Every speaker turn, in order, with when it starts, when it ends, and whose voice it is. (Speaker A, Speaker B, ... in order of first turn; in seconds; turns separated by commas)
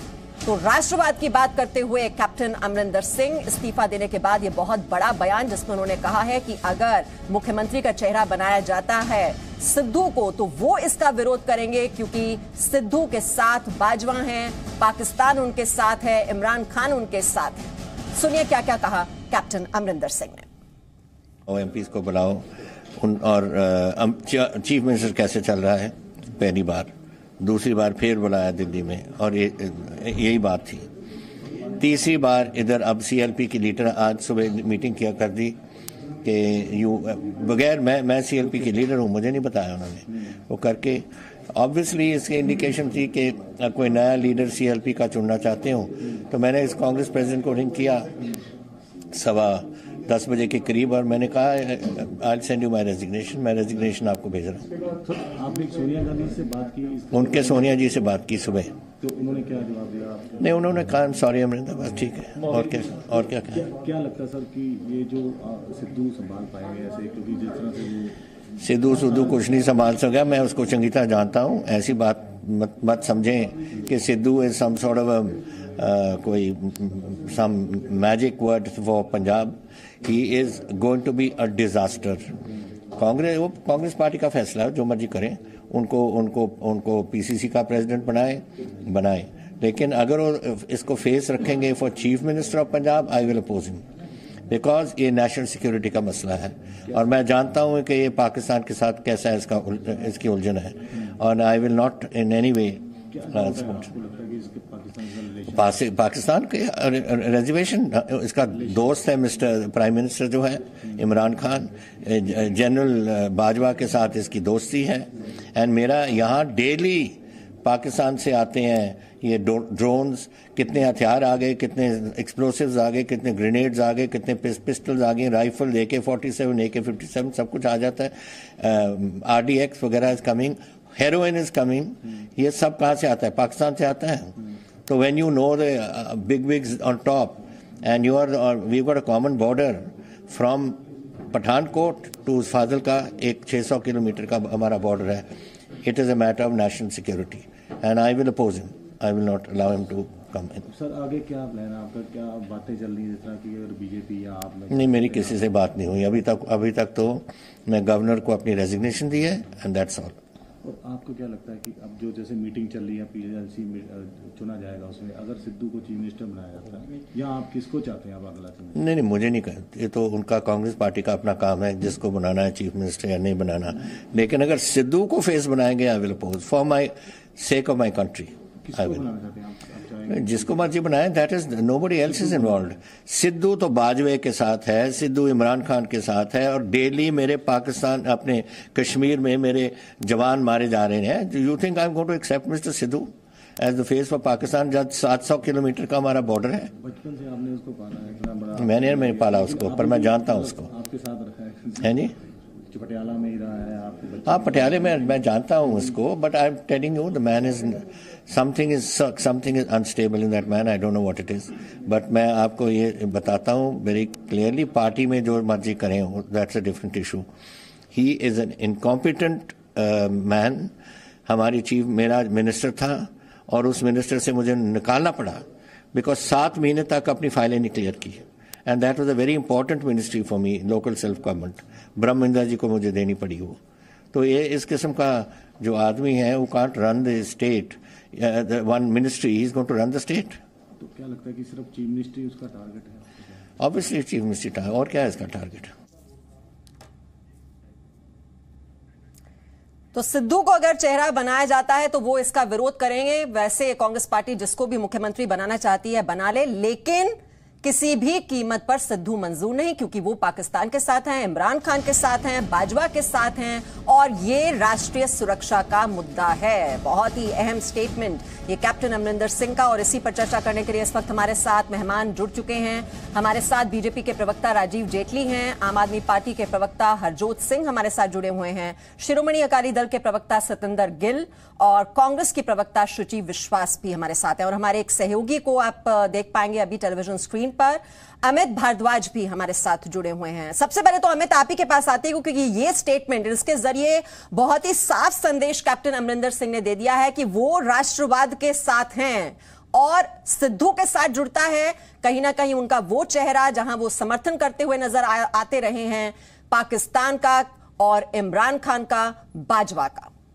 Speaker A: 0.4-20.4, Speaker B: 21.5-30.9, Speaker B: 31.8-35.6, Speaker B: 36.2-48.1, Speaker B: 49.1-54.7, Speaker C: 55.0-57.8, Speaker B: 57.1-58.8, Speaker C: 59.0-60.5, Speaker B: 60.4-63.6, Speaker C: 62.4-68.2, Speaker B: 68.6-82.4, Speaker B: 82.9-93.8, Speaker B: 94.5-103.8, Speaker C: 103.1-105.8, Speaker B: 105.5-145.3, Speaker C: 108.5-108.9, Speaker B: 145.8-150.6, Speaker C: 150.7-155.4, Speaker B: 154.7-160.2, Speaker C: 160.6-168.8, Speaker B: 168.7-179.0, Speaker C: 178.6-180.8, Speaker B: 180.1-196.7, Speaker C: 182.0-182.7, Speaker C: 196.8-202.1, Speaker B: 198.6-200.7, Speaker B: 201.8-202.1, Speaker C: 202.7-205.2, Speaker B: 204.2-217.3, Speaker B: 217.9-220.7, Speaker B: 221.3-233.6, Speaker B: 234.1-240.4, Speaker C: 240.8-243.4, Speaker B: 243.6-245.7, Speaker A: 249.9-310.1